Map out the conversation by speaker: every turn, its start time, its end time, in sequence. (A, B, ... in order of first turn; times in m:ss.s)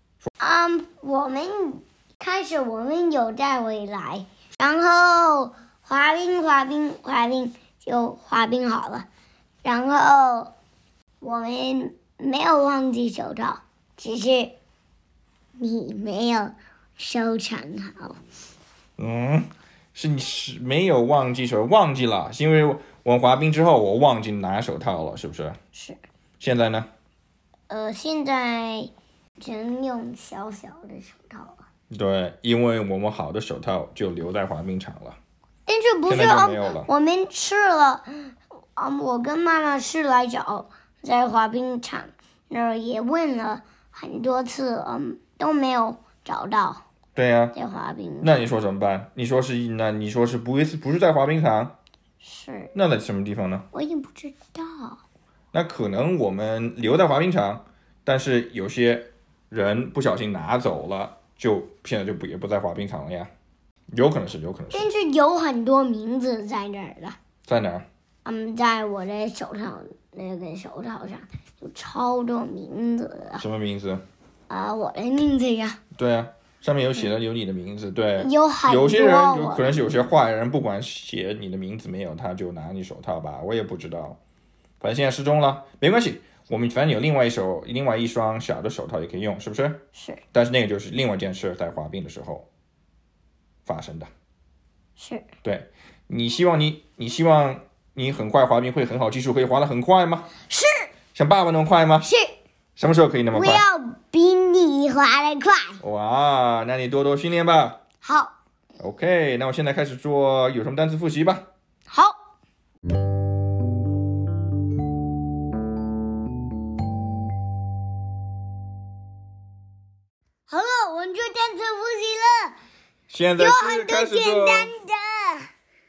0:00.4-0:09.1 A
0:09.6-0:10.5 A
0:11.2-0:14.6 A
0:15.6-0:18.2 A
0:19.0-0:25.6 B
0:25.7-0:26.0 A
0:26.4-0:26.9 B
0:27.7-0:31.6 A
0:31.9-0:35.2 B
0:35.7-0:46.8 A
0:36.1-0:36.9 B
0:47.2-0:47.6 B
0:47.5-0:48.4 A
0:48.2-0:51.8 B
0:52.2-0:52.7 A
0:52.8-0:53.7 B
0:53.7-0:55.0 A
0:55.5-1:03.3 B
1:03.9-1:04.9 B
1:04.7-1:07.2 A
1:07.5-1:07.8 B
1:08.2-1:13.4 A
1:13.4-1:14.0 B
1:14.5-1:15.8 A
1:16.0-1:24.2 B
1:18.2-1:19.9 A
1:24.8-1:29.8 B
1:30.0-1:30.2 A
1:30.3-1:32.5 B
1:33.7-1:34.1 B
1:35.0-1:35.3 A
1:35.4-1:40.3 B
1:40.5-1:40.9 A
1:41.2-1:42.1 B
1:42.1-1:42.3 A
1:42.8-1:43.6 B
1:43.3-1:45.8 A
1:45.8-1:47.8 B
1:48.0-1:48.3 A
1:48.8-1:51.4 B
1:51.9-1:52.2 A
2:00.5-2:02.6 A
2:03.1-2:04.7 B
2:03.4-2:05.5 A